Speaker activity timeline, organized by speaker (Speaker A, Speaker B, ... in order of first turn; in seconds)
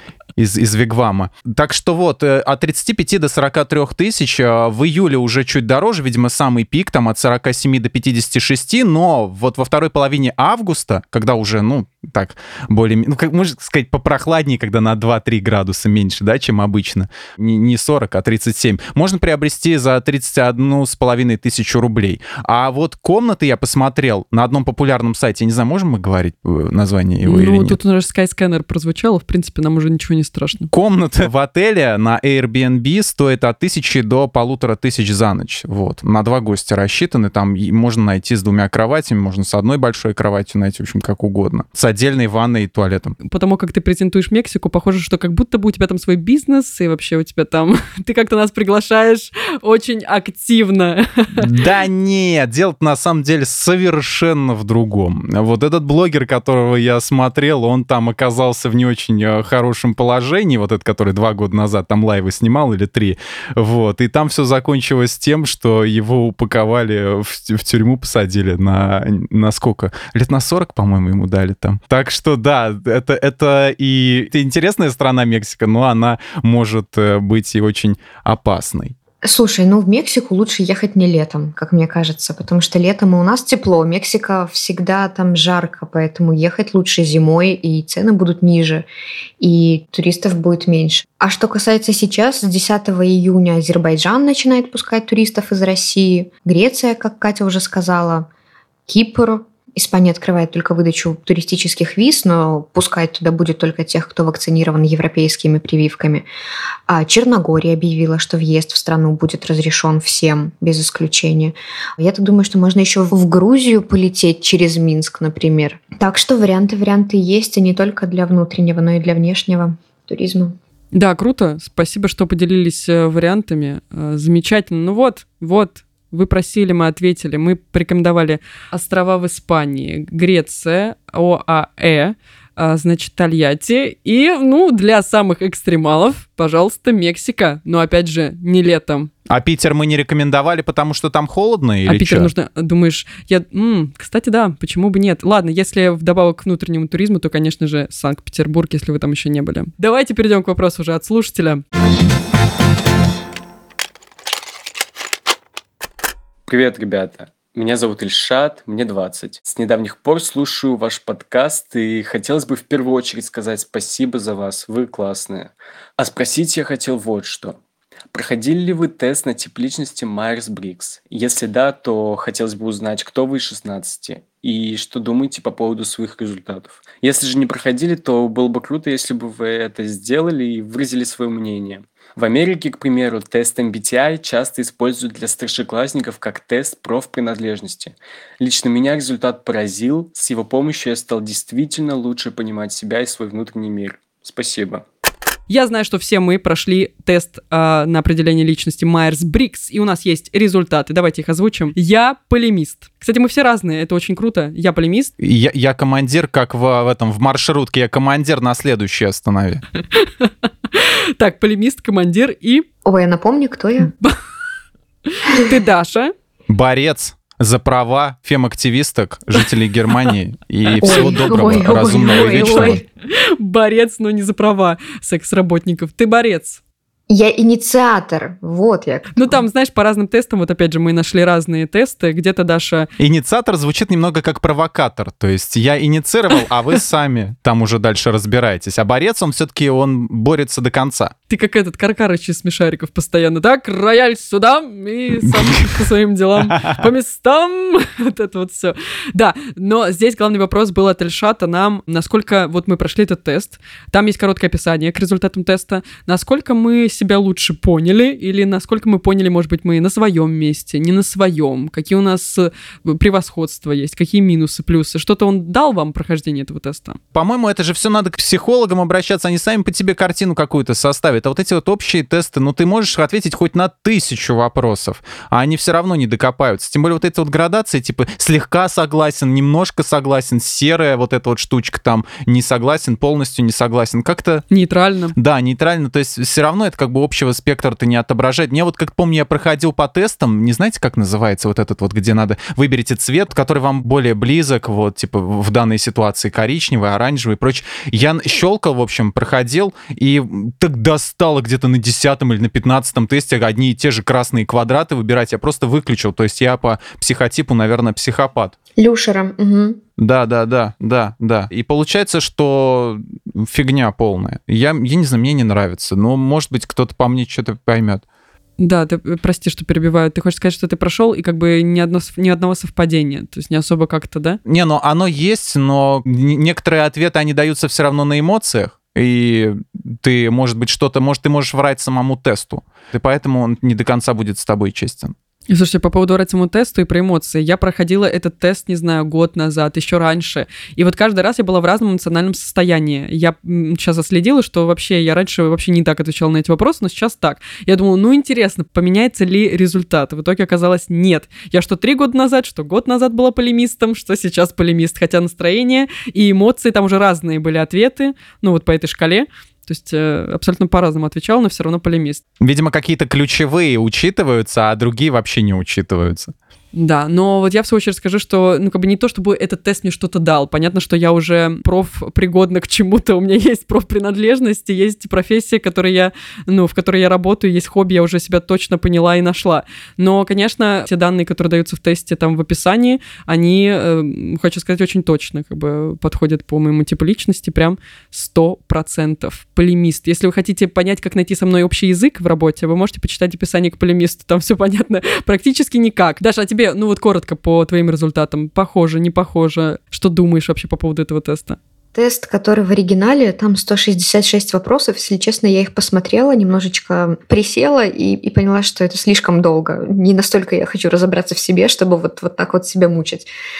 Speaker A: 0.4-27.8, 30.7-43.2, 51.4-78.9, 139.3-142.3, 205.2-209.6, 216.5-222.8, 233.0-241.1, 245.4-245.8, 246.4-246.9, 267.1-284.4, 285.1-308.5, 310.0-318.0, 324.4-335.1, 362.4-366.3
Speaker B: 27.2-30.7, 43.2-51.5, 120.9-139.1, 141.8-151.6, 195.5-205.1, 209.9-212.7, 215.1-216.1, 222.4-226.6, 229.1-232.9, 241.3-267.0, 284.5-285.1, 318.6-324.4, 335.5-362.2, 366.7-401.6
Speaker C: 79.2-88.9, 89.4-98.3, 98.9-106.2, 106.9-120.6, 212.8-213.9, 220.8-222.8, 227.1-229.4, 308.8-309.8, 401.9-413.3
Speaker D: 156.4-167.6, 168.1-194.8